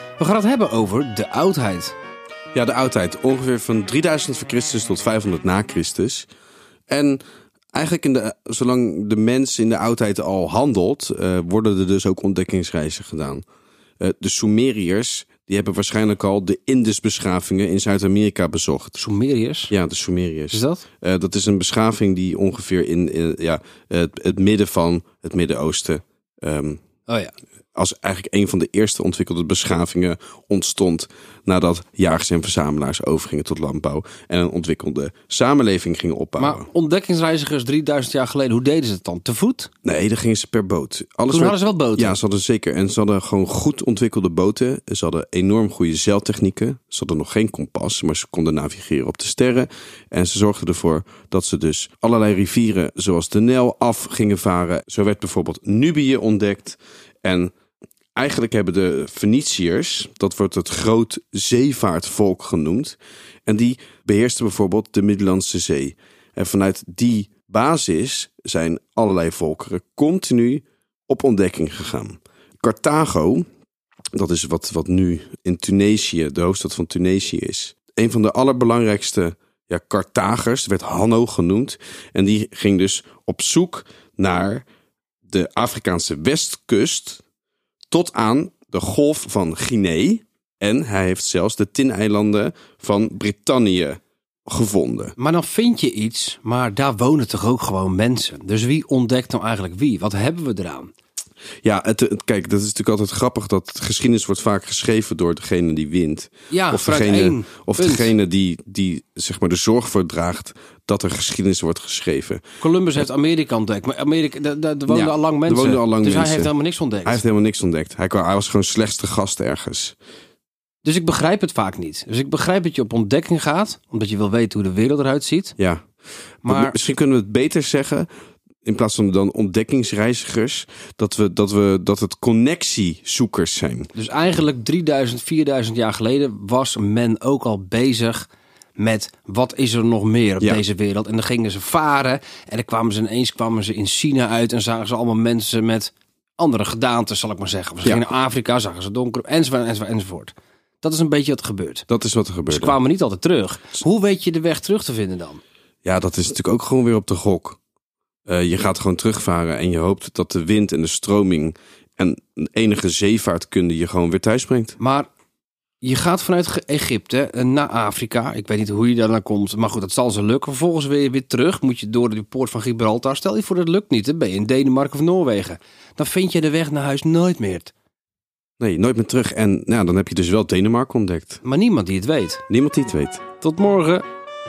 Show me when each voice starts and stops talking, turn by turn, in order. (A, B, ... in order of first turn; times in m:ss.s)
0:00.2-0:01.9 A
0:02.5-0:06.3 B
0:06.9-0:07.2 B
0:07.7-0:13.4 B
0:14.0-0:19.0 B
0:19.0-0:19.7 A
0:19.7-0:26.8 B
0:20.5-0:20.8 A
0:27.1-0:27.3 A
0:27.7-0:36.7 B
0:36.4-0:39.7 A
0:39.8-0:57.5 B
0:41.3-0:42.2 A
0:58.2-1:13.4 B
1:14.1-1:24.6 B
1:25.2-1:27.2 B
1:27.9-1:35.1 B
1:35.2-1:40.9 A
1:41.6-1:52.4 B
1:46.5-1:48.1 A
1:52.6-1:57.2 A
1:54.9-1:56.5 B
1:57.0-2:00.0 B
2:00.8-2:05.5 A
2:05.6-2:05.8 B
2:06.4-2:06.7 A
2:06.4-2:08.1 B
2:08.6-2:13.9 B
2:13.9-2:31.9 A
2:31.9-2:32.8 B
2:32.5-2:35.4 A
2:35.8-2:37.6 B
2:38.3-2:44.8 B
2:44.8-2:45.1 A
2:45.8-2:57.7 A
2:58.6-3:01.4 B
3:01.4-3:02.4 A
3:02.5-3:03.2 B
3:03.4-3:04.0 A